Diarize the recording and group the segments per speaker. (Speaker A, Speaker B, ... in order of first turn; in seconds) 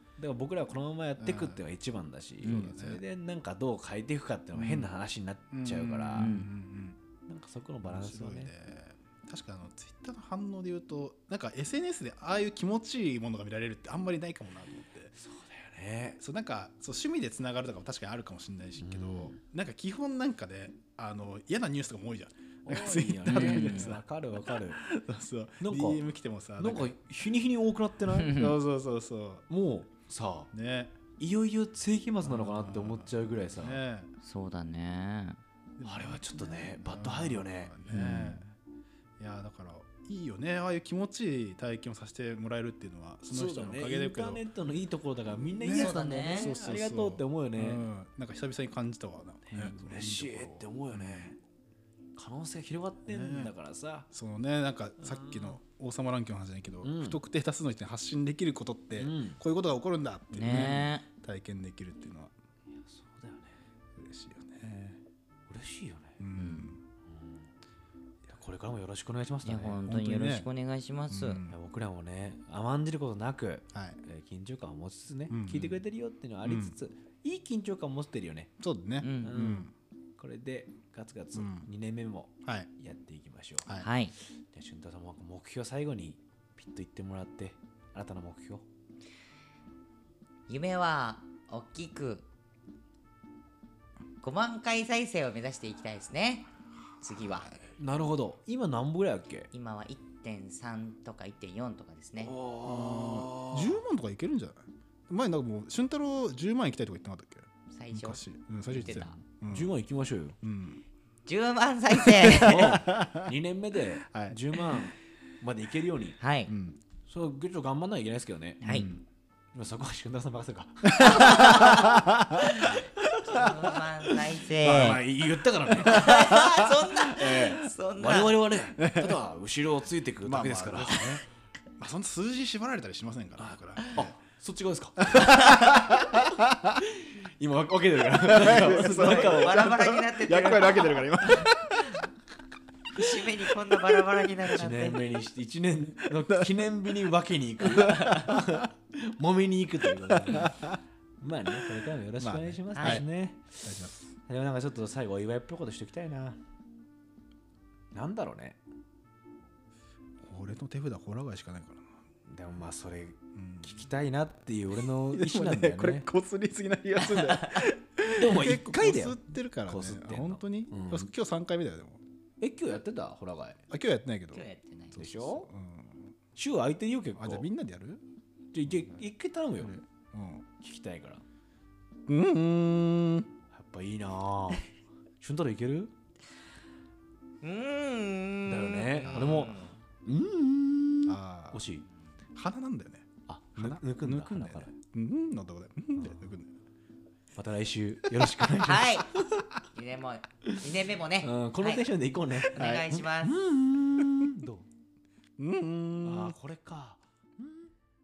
Speaker A: 0.2-6.3, 7.3-8.5, 15.2-16.2, 18.8-19.4, 22.6-24.8, 25.6-26.1, 26.6-28.4, 29.5-30.5, 31.2-33.8, 35.8-38.4, 43.3-47.9, 49.5-51.4, 52.2-54.1, 55.0-55.6, 56.8-57.2, 59.0-59.4, 60.5-60.8, 62.9-63.6, 65.5-66.2, 67.1-67.5, 68.3-69.8, 71.5-78.5, 79.2-83.7, 84.4-88.7, 97.8-99.5, 102.2-103.8, 108.8-110.4, 112.4-116.2, 117.1-118.6, 119.5-121.9, 124.6-126.2, 127.1-131.2, 133.4-135.1, 136.8-139.8, 144.5-153.6, 154.3-156.4, 157.9-158.6, 162.3-166.1, 168.2-171.1, 172.4-173.6, 175.0-175.5, 176.3-177.5, 178.5-179.8, 180.6-181.2, 183.5-184.6, 185.2-185.9, 188.5-191.9, 193.3-194.7, 196.0-196.3, 197.4-199.5, 201.2-204.7, 206.0-207.7
Speaker B: 1.2-1.6, 2.4-3.0, 5.5-7.0, 7.8-15.1, 16.2-24.0, 24.7-27.0, 28.3-29.5, 30.5-31.0, 32.2-34.1, 35.8-38.5, 39.2-44.4, 45.6-51.4, 53.1-53.5, 54.1-62.3, 64.0-65.0, 66.2-66.8, 69.8-70.5, 71.1-71.6, 73.7-74.0, 75.3-75.8, 76.4-76.8, 78.6-79.7, 81.3-81.7, 102.6-109.7, 110.4-110.8, 112.0-113.3, 114.1-114.8, 116.5-116.8, 118.6-119.0, 120.9-123.8, 124.6-125.0, 125.7-126.5, 127.2-127.4, 128.8-129.2, 130.2-131.2, 131.8-134.2, 135.0-136.6, 138.2-142.0, 146.1-146.5, 147.7-148.4, 150.2-150.8, 152.2-153.1, 153.6-154.1, 160.2-161.9, 163.3-163.9, 165.1-172.0, 173.7-176.1, 177.2-178.0, 180.0-180.5, 182.1-183.3, 189.0-189.7, 191.1-191.7, 192.3-196.5, 198.1-198.5, 202.6-202.9, 205.4-206.4
Speaker C: 4.5-4.9, 6.2-6.5, 23.3-23.9, 28.1-28.6, 34.2-35.4, 37.9-38.4, 45.7-46.6, 60.3-61.0, 66.4-66.7, 69.4-71.4, 79.0-79.4, 83.8-84.1, 90.5-92.3, 94.2-97.6, 99.5-102.3, 107.7-109.2, 111.3-112.8, 116.2-116.5, 118.6-118.9, 121.0-122.0, 122.5-125.0, 125.8-128.5, 135.2-135.7, 138.5-141.4, 142.9-145.1, 147.8-148.3, 152.7-153.0, 167.2-167.6, 174.3-175.1, 187.4-189.8, 198.6-199.1, 199.7-201.9, 202.4-203.4